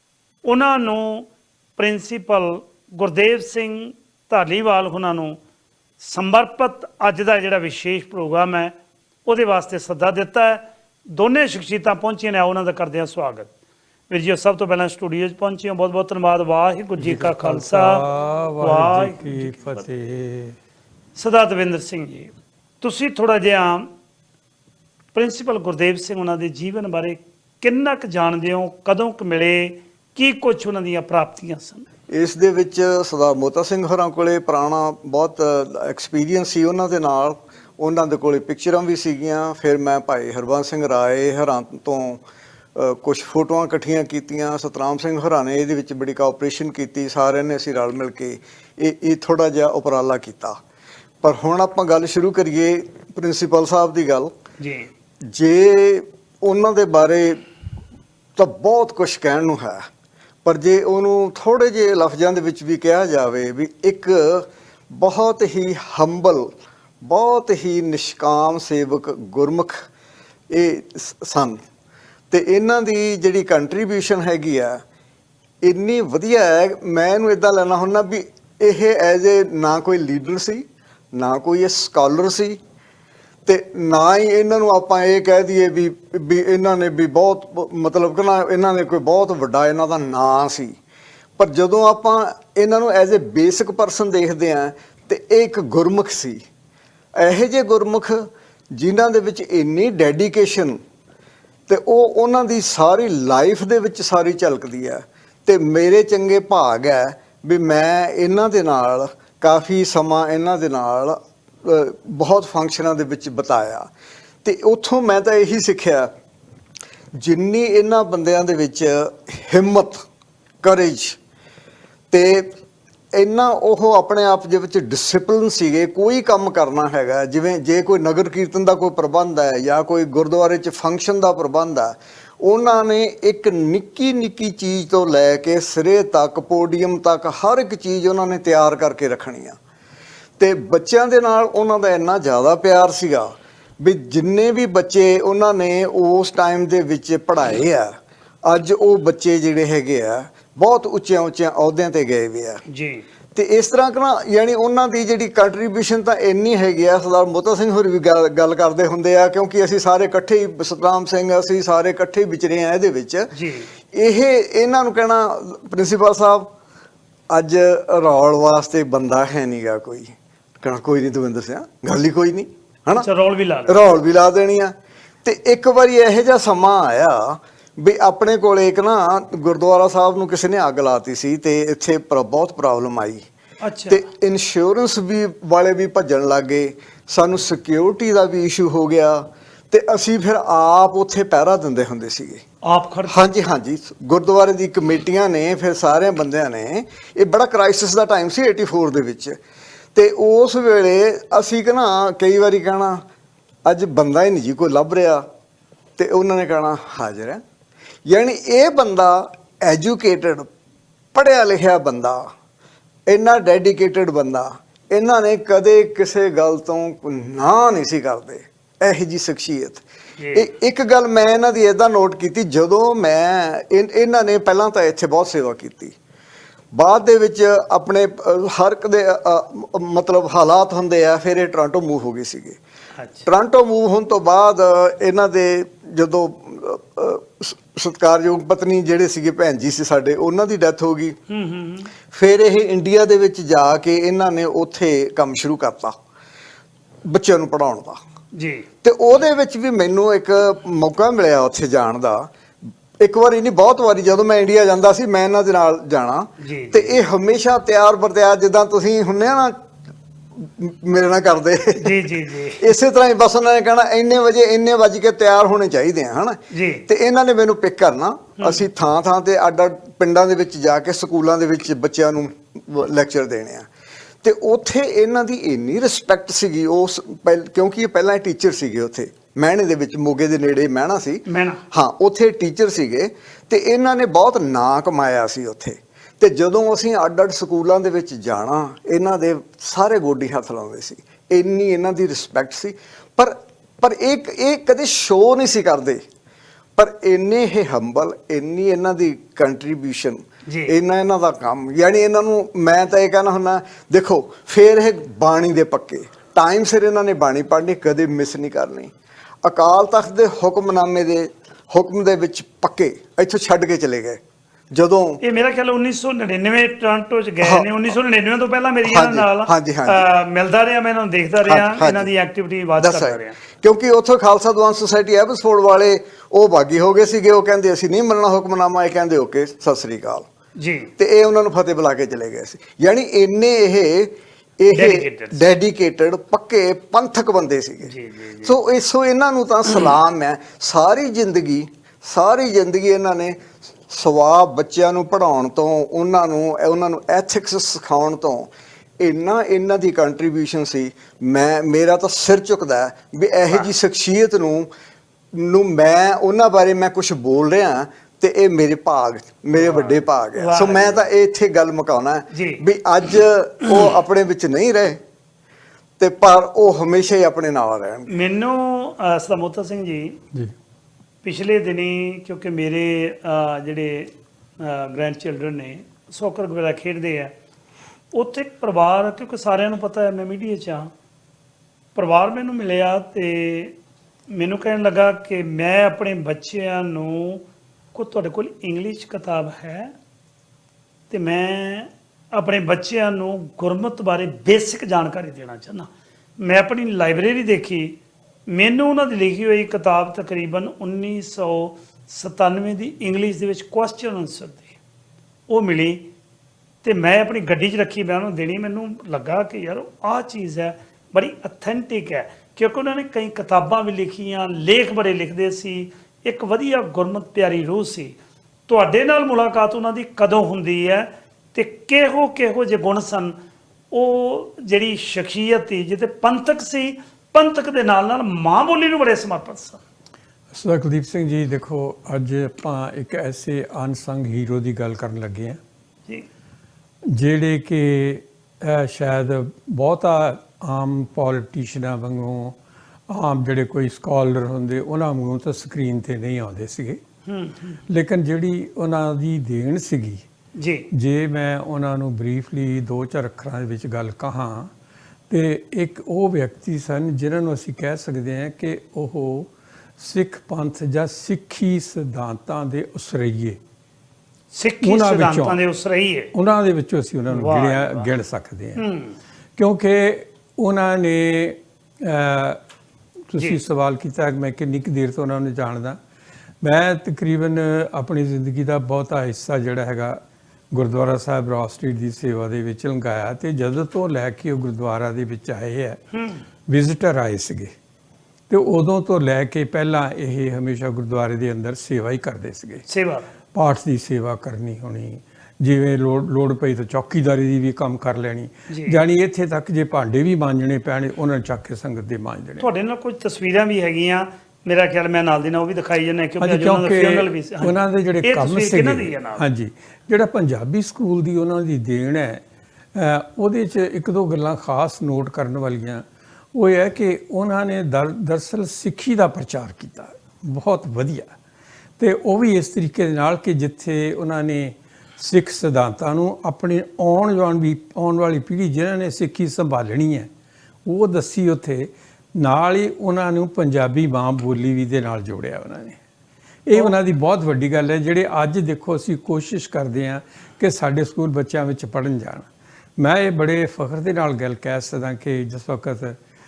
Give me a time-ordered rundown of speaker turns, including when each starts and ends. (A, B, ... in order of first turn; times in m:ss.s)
0:00.4-0:05.4 A
0:06.0-0:08.7 A
0:09.2-0:13.5 A
0:14.1-0:18.0 A
0:17.0-0:20.6 B
0:18.6-0:19.8 A
0:21.2-0:23.9 A
0:25.1-0:31.8 A
0:32.1-0:42.2 C
0:42.7-0:50.6 C
0:51.2-0:54.3 C
0:54.6-0:54.9 A
0:55.2-0:57.4 C
0:58.4-0:59.9 C
1:00.4-1:09.8 C
1:10.5-1:11.6 C
1:12.3-1:14.8 C
1:15.6-1:22.6 C
1:23.4-1:30.8 C
1:31.4-1:36.4 C
1:37.2-1:40.8 C
1:41.7-1:53.9 C
1:54.4-1:56.1 C
1:57.1-2:00.0 C
2:00.6-2:01.2 C
2:02.1-2:02.5 C
2:03.1-2:19.6 C
2:20.4-2:32.6 C
2:32.7-2:33.0 A
2:33.3-2:43.3 C
2:43.3-2:43.7 A
2:43.9-2:46.5 C
2:47.3-2:53.1 C
2:52.9-2:53.8 A
2:53.7-3:03.2 C
3:03.6-3:04.0 A
3:03.9-3:12.4 C
3:12.6-3:13.2 A
3:13.1-3:19.4 C
3:19.9-3:23.0 C
3:23.6-3:25.2 C
3:26.0-3:27.4 C
3:28.0-3:30.5 C
3:31.1-3:32.3 C
3:33.1-3:39.8 C
3:40.2-3:40.5 A
3:40.3-3:45.9 C
3:46.7-3:52.6 C
3:53.0-3:53.3 A
3:53.2-4:01.2 C
4:01.3-4:01.9 A
4:02.1-4:06.0 C
4:07.0-4:08.0 C
4:08.3-4:08.7 A
4:08.8-4:12.3 C
4:13.0-4:19.6 C
4:16.4-4:17.0 A
4:20.4-4:33.7 C
4:21.8-4:22.7 A
4:26.5-4:26.9 A
4:34.2-4:56.0 C
4:41.3-4:41.6 A
4:56.8-5:08.9 C
5:00.5-5:00.7 A
5:09.4-5:15.2 C
5:15.2-5:23.4 A
5:17.4-5:17.7 C
5:18.8-5:20.0 C
5:21.4-5:22.1 C
5:22.8-5:30.3 C
5:30.6-5:30.9 A
5:31.0-5:37.9 C
5:34.7-5:35.5 A
5:37.8-5:38.6 A
5:38.4-5:54.7 C
5:39.7-5:39.9 A
5:55.3-6:05.0 C
5:59.6-6:01.0 A
6:02.3-6:02.6 A
6:06.0-6:08.1 C
6:08.1-6:10.2 A
6:11.2-6:17.3 A
6:18.1-6:20.9 A
6:21.9-6:23.8 A
6:24.3-6:29.9 A
6:31.1-6:38.0 A
6:38.5-6:44.8 A
6:45.5-6:46.1 A
6:46.8-6:58.2 A
6:58.7-7:03.4 A
7:03.9-7:09.8 A
7:10.5-7:15.6 B
7:17.1-7:22.6 B
7:23.1-7:27.0 B
7:27.2-7:27.8 A
7:27.9-7:30.2 B
7:30.5-7:30.9 A
7:30.9-7:34.7 B
7:35.3-7:43.6 B
7:44.5-7:46.3 A
7:44.8-7:45.6 B
7:46.3-7:48.8 B
7:47.3-7:48.1 A
7:48.8-7:49.2 A
7:49.6-7:52.6 B
7:53.3-7:56.0 B
7:56.6-8:00.2 B
8:00.7-8:06.0 B
8:06.1-8:06.4 A
8:06.6-8:07.7 B
8:08.5-8:12.8 B
8:12.9-8:13.3 A
8:13.5-8:22.6 B
8:18.7-8:19.0 A
8:22.6-8:29.4 A
8:26.4-8:32.4 B
8:32.9-8:41.3 B
8:42.0-8:50.3 B
8:50.8-8:56.0 B
8:56.6-9:06.2 B
8:56.7-8:57.0 A